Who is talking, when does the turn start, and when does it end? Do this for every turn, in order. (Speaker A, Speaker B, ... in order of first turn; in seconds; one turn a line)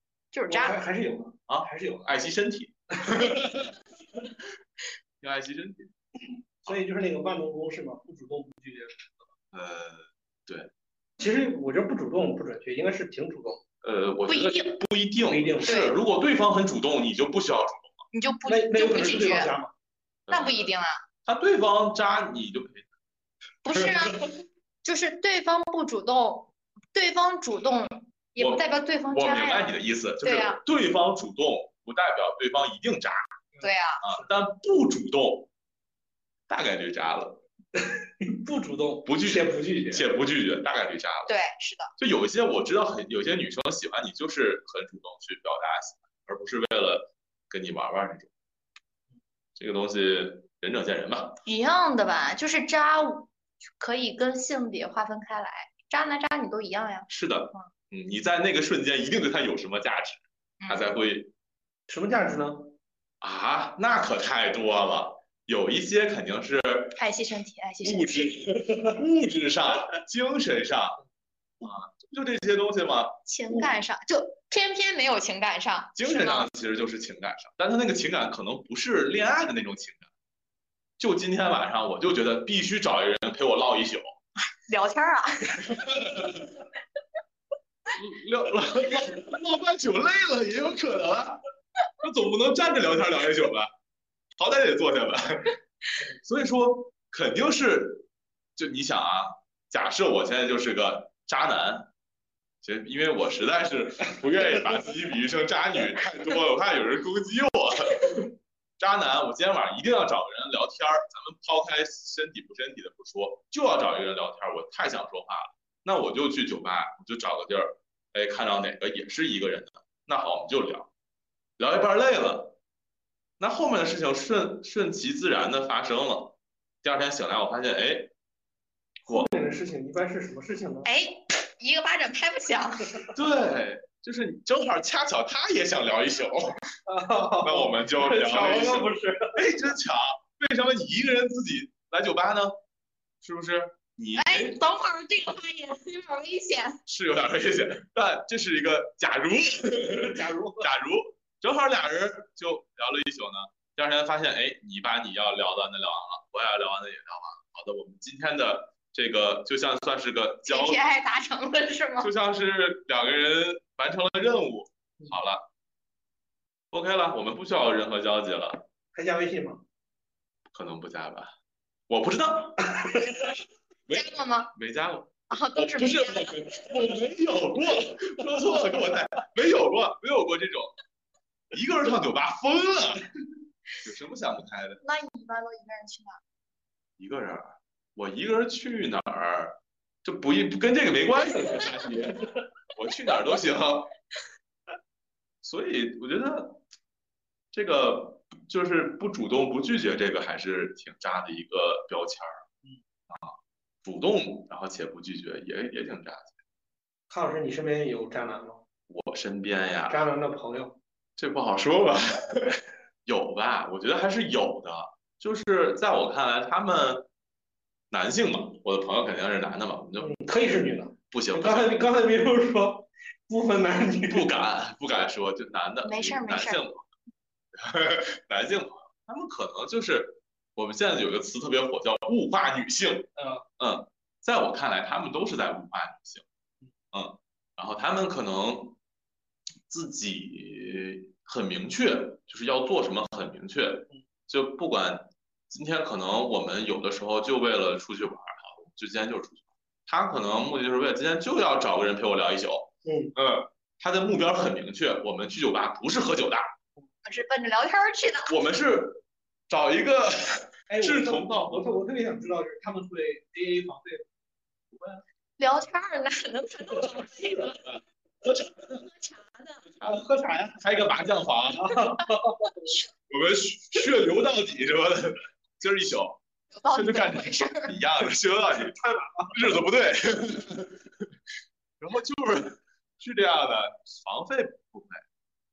Speaker A: 0.3-0.8
Speaker B: 0.5-2.0
Speaker C: 1.5-3.7
Speaker C: 5.2-5.9
Speaker B: 6.6-9.2
Speaker C: 9.5-10.7
Speaker B: 11.2-13.6
Speaker C: 13.8-18.0
Speaker A: 14.3-14.8
Speaker B: 15.3-15.8
Speaker A: 15.6-15.9
Speaker A: 18.1-19.5
Speaker B: 18.5-19.7
Speaker C: 20.3-20.7
Speaker A: 20.3-21.0
Speaker C: 21.2-22.9
Speaker A: 23.6-24.2
Speaker A: 24.8-30.6
Speaker C: 28.4-33.4
Speaker B: 33.5-34.3
Speaker A: 33.6-34.0
Speaker C: 34.0-35.5
Speaker C: 36.5-37.4
Speaker B: 37.8-40.0
Speaker C: 39.0-41.3
Speaker A: 41.3-41.9
Speaker C: 42.0-48.3
Speaker C: 49.5-51.4
Speaker A: 51.5-57.7
Speaker C: 57.1-61.3
Speaker A: 60.6-60.9
Speaker B: 61.9-62.7
Speaker C: 63.2-67.0
Speaker A: 67.0-68.3
Speaker C: 67.8-71.0
Speaker C: 71.6-73.7
Speaker A: 73.3-76.5
Speaker C: 76.0-80.1
Speaker C: 81.0-84.0
Speaker A: 84.7-85.6
Speaker C: 85.6-86.6
Speaker C: 87.9-91.4
Speaker C: 92.0-93.7
Speaker C: 94.4-95.6
Speaker C: 96.2-101.9
Speaker C: 102.6-120.9
Speaker C: 121.6-122.5
Speaker C: 123.4-128.1
Speaker B: 129.0-130.9
Speaker A: 130.8-133.1
Speaker C: 133.1-136.6
Speaker B: 136.9-139.4
Speaker C: 137.4-142.5
Speaker C: 143.2-144.6
Speaker A: 144.1-146.8
Speaker C: 146.8-160.8
Speaker B: 149.9-150.7
Speaker A: 160.4-162.1
Speaker C: 162.0-165.4
Speaker C: 166.7-168.7
Speaker B: 168.9-169.6
Speaker C: 170.5-171.3
Speaker C: 171.9-173.1
Speaker C: 173.9-180.7
Speaker A: 173.9-174.5
Speaker A: 175.3-176.3
Speaker C: 181.5-183.1
Speaker C: 183.8-184.8
Speaker A: 184.8-186.2
Speaker C: 187.0-193.9
Speaker C: 195.4-196.6
Speaker C: 197.5-202.4
Speaker C: 203.1-206.3
Speaker B: 207.1-208.6
Speaker C: 208.9-210.0
Speaker B: 209.9-210.8
Speaker C: 211.2-217.1
Speaker C: 217.9-220.1
Speaker B: 220.0-224.3
Speaker C: 221.1-221.7
Speaker C: 224.1-226.8
Speaker A: 225.8-226.6
Speaker C: 227.5-236.2
Speaker B: 233.2-233.4
Speaker C: 236.9-238.8
Speaker C: 239.7-256.5
Speaker B: 252.8-253.1
Speaker A: 257.0-258.4
Speaker C: 258.3-261.8
Speaker B: 260.7-264.1
Speaker C: 264.7-265.0
Speaker A: 265.4-267.6
Speaker C: 267.5-268.5
Speaker A: 268.7-269.6
Speaker C: 269.8-272.0
Speaker B: 271.6-272.5
Speaker C: 272.7-276.2
Speaker A: 276.5-277.8
Speaker C: 276.7-281.1
Speaker B: 278.7-279.3
Speaker C: 281.8-285.0